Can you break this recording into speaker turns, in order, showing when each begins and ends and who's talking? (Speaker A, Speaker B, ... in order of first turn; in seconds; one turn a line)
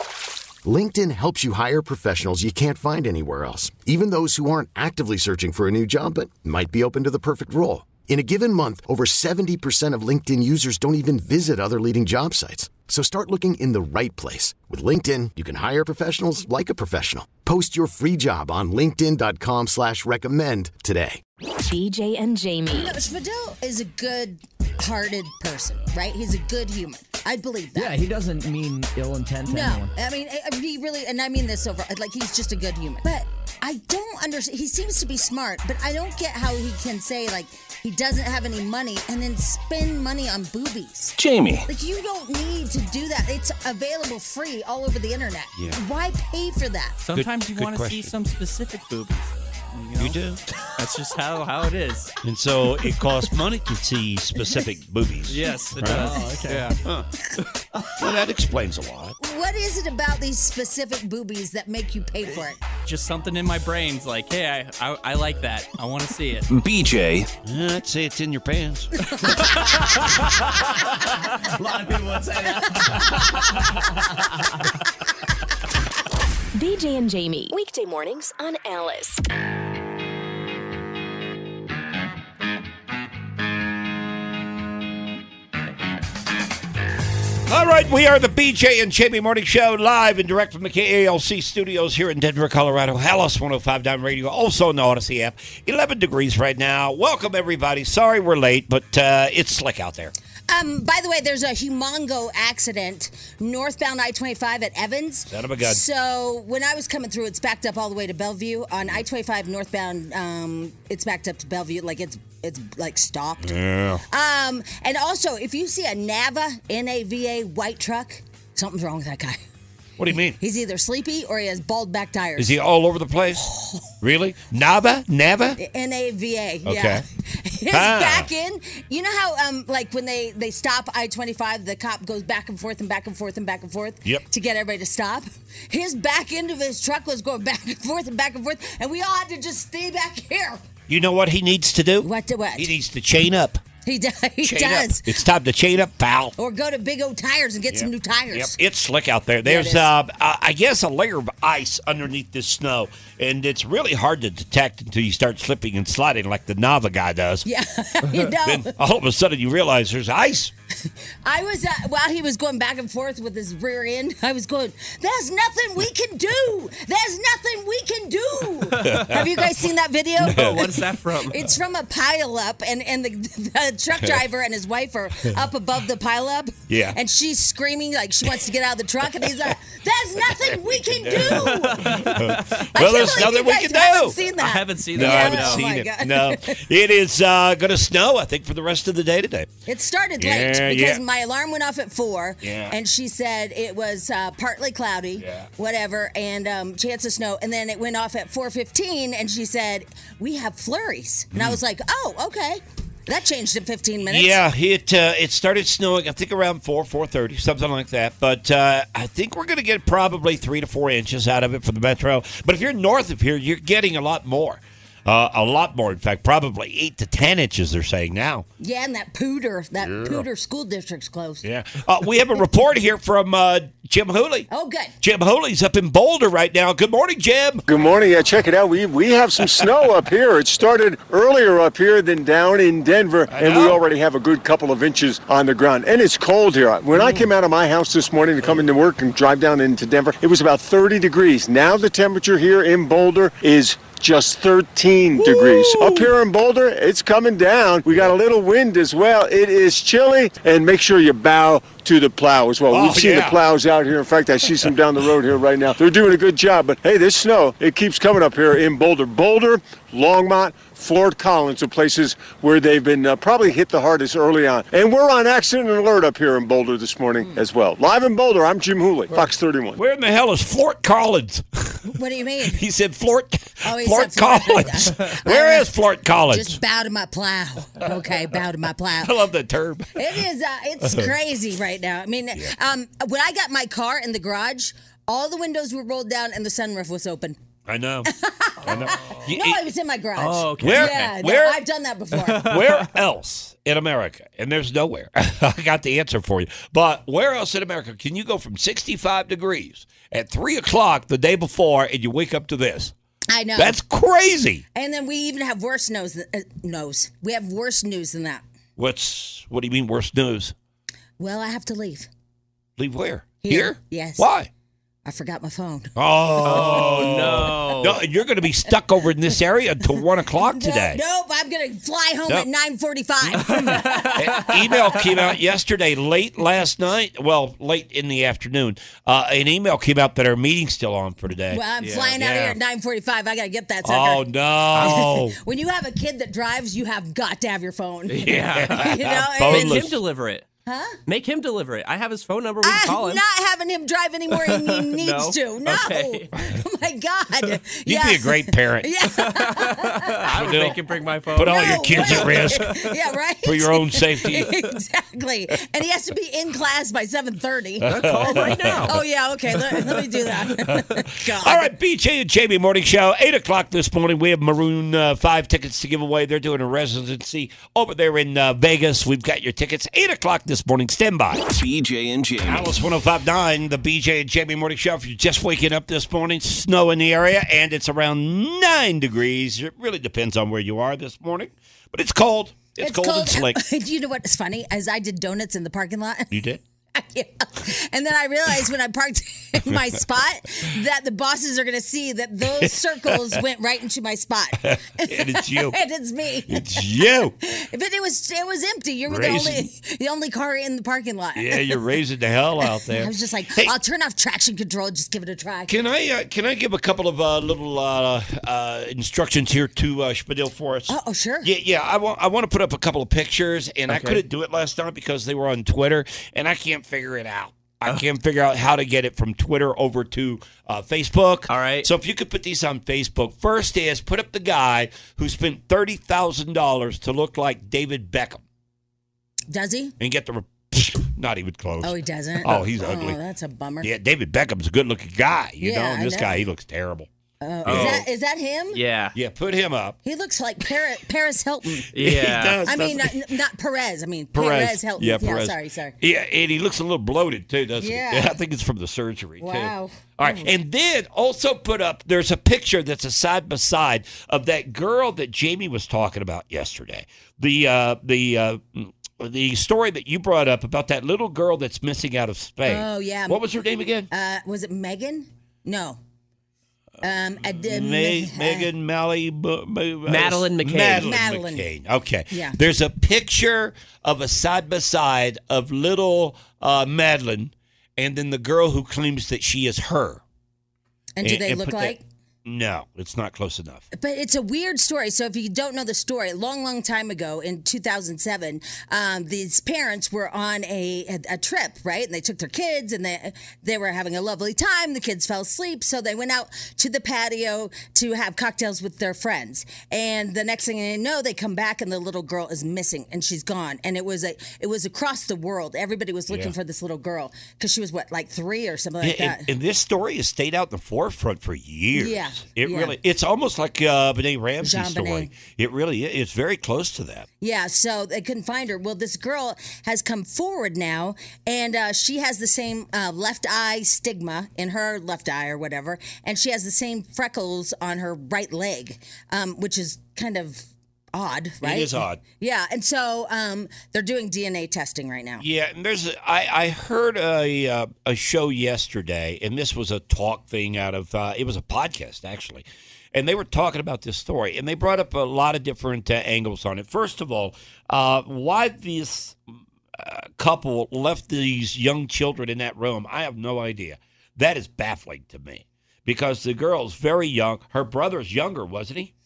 Speaker A: 0.7-21.2
Speaker B: 21.6-22.9
Speaker C: 22.7-28.0
Speaker D: 27.8-29.9
Speaker C: 29.5-41.2
Speaker E: 41.2-41.7
Speaker C: 41.7-47.0
Speaker F: 47.0-50.2
Speaker G: 47.1-48.1
Speaker G: 50.0-50.4
Speaker F: 50.8-52.1
Speaker G: 52.2-56.2
Speaker F: 55.3-56.8
Speaker G: 56.8-57.1
Speaker G: 58.0-59.2
Speaker C: 59.2-62.6
Speaker F: 62.9-66.5
Speaker E: 66.5-67.3
Speaker G: 67.5-68.9
Speaker C: 69.1-69.5
Speaker F: 69.8-70.2
Speaker F: 71.6-72.3
Speaker B: 76.5-79.2
Speaker G: 87.5-100.1
Speaker C: 100.5-113.5
Speaker G: 105.3-105.8
Speaker G: 113.4-114.0
Speaker C: 114.1-119.4
Speaker G: 120.0-120.4
Speaker C: 120.4-122.6
Speaker G: 122.4-123.5
Speaker C: 123.4-123.9
Speaker G: 124.0-125.6
Speaker C: 125.6-140.6
Speaker G: 126.7-127.0
Speaker G: 127.7-128.3
Speaker G: 140.9-143.6
Speaker C: 142.0-142.7
Speaker C: 143.8-145.1
Speaker G: 144.4-146.4
Speaker C: 146.4-148.6
Speaker G: 147.7-157.5
Speaker C: 149.4-149.9
Speaker C: 157.4-158.7
Speaker G: 158.4-160.5
Speaker C: 161.2-170.7
Speaker G: 168.8-169.5
Speaker F: 170.2-171.5
Speaker G: 170.2-170.6
Speaker C: 171.2-182.1
Speaker G: 176.7-177.0
Speaker G: 180.3-184.2
Speaker F: 181.3-182.7
Speaker C: 182.8-186.6
Speaker F: 184.3-185.8
Speaker G: 184.9-189.5
Speaker C: 189.7-204.4
Speaker G: 190.2-191.0
Speaker G: 192.4-192.8
Speaker G: 195.2-195.5
Speaker G: 201.3-201.6
Speaker G: 204.1-218.5
Speaker C: 218.6-221.4
Speaker G: 219.8-220.2
Speaker G: 221.4-224.5
Speaker C: 224.5-224.9
Speaker G: 225.0-227.7
Speaker H: 227.7-269.8
Speaker G: 233.3-233.8
Speaker G: 236.9-237.3
Speaker G: 238.4-238.7
Speaker G: 245.1-246.1
Speaker G: 252.7-253.4
Speaker G: 269.8-271.9
Speaker C: 271.9-272.6
Speaker G: 272.5-276.6
Speaker C: 273.6-275.7
Speaker C: 276.3-279.1
Speaker G: 279.0-280.2
Speaker C: 280.0-287.4
Speaker G: 280.8-281.1
Speaker G: 287.7-288.1
Speaker C: 288.1-292.5
Speaker G: 288.6-289.7
Speaker F: 290.2-291.1
Speaker G: 290.6-291.6
Speaker F: 292.1-292.9
Speaker G: 292.4-302.9
Speaker C: 303.3-303.8
Speaker G: 303.6-304.6
Speaker C: 304.8-308.4
Speaker G: 308.8-310.5
Speaker C: 311.2-312.1
Speaker G: 312.8-314.5
Speaker C: 313.4-314.3
Speaker C: 315.1-315.9
Speaker G: 316.0-321.0
Speaker F: 316.4-318.0
Speaker C: 320.4-325.0
Speaker F: 323.4-324.8
Speaker G: 324.1-332.6
Speaker C: 331.5-339.8
Speaker F: 331.8-332.1
Speaker G: 333.8-335.4
Speaker F: 338.1-340.4
Speaker G: 338.2-340.0
Speaker C: 340.7-341.0
Speaker F: 341.1-343.2
Speaker C: 342.6-350.2
Speaker F: 344.4-346.3
Speaker G: 347.9-349.0
Speaker F: 349.2-352.9
Speaker G: 350.2-350.8
Speaker G: 351.3-352.8
Speaker C: 351.4-361.7
Speaker G: 353.4-354.5
Speaker G: 357.8-358.9
Speaker F: 357.9-359.0
Speaker G: 361.4-371.4
Speaker E: 371.4-372.8
Speaker G: 372.4-383.6
Speaker C: 382.8-386.3
Speaker G: 386.3-386.6
Speaker C: 386.9-396.9
Speaker G: 392.6-393.4
Speaker G: 394.6-395.8
Speaker G: 396.5-397.3
Speaker C: 397.4-401.8
Speaker G: 399.1-399.7
Speaker G: 401.4-403.7
Speaker C: 402.6-405.7
Speaker G: 405.7-428.4
Speaker C: 410.9-411.5
Speaker F: 413.9-414.2
Speaker F: 421.5-421.9
Speaker C: 429.5-429.9
Speaker G: 430.0-433.2
Speaker C: 431.8-433.9
Speaker G: 433.8-437.1
Speaker C: 435.6-436.4
Speaker C: 437.4-438.8
Speaker G: 437.6-438.1
Speaker F: 437.7-438.0
Speaker F: 438.7-439.2
Speaker G: 439.2-440.0
Speaker C: 440.0-441.9
Speaker F: 441.9-442.6
Speaker G: 442.0-443.3
Speaker C: 442.6-446.0
Speaker G: 444.3-464.1
Speaker C: 447.8-448.4
Speaker C: 449.4-450.5
Speaker C: 462.6-463.4
Speaker C: 464.1-466.0
Speaker C: 467.0-468.7
Speaker G: 467.6-480.2
Speaker F: 470.1-471.2
Speaker C: 471.0-471.7
Speaker C: 472.3-472.6
Speaker C: 481.2-482.0
Speaker G: 481.2-483.9
Speaker C: 483.9-509.5
Speaker G: 509.0-517.3
Speaker C: 511.9-513.0
Speaker C: 514.6-515.3
Speaker C: 517.4-535.4
Speaker G: 531.6-532.2
Speaker G: 535.4-549.4
Speaker G: 550.0-559.1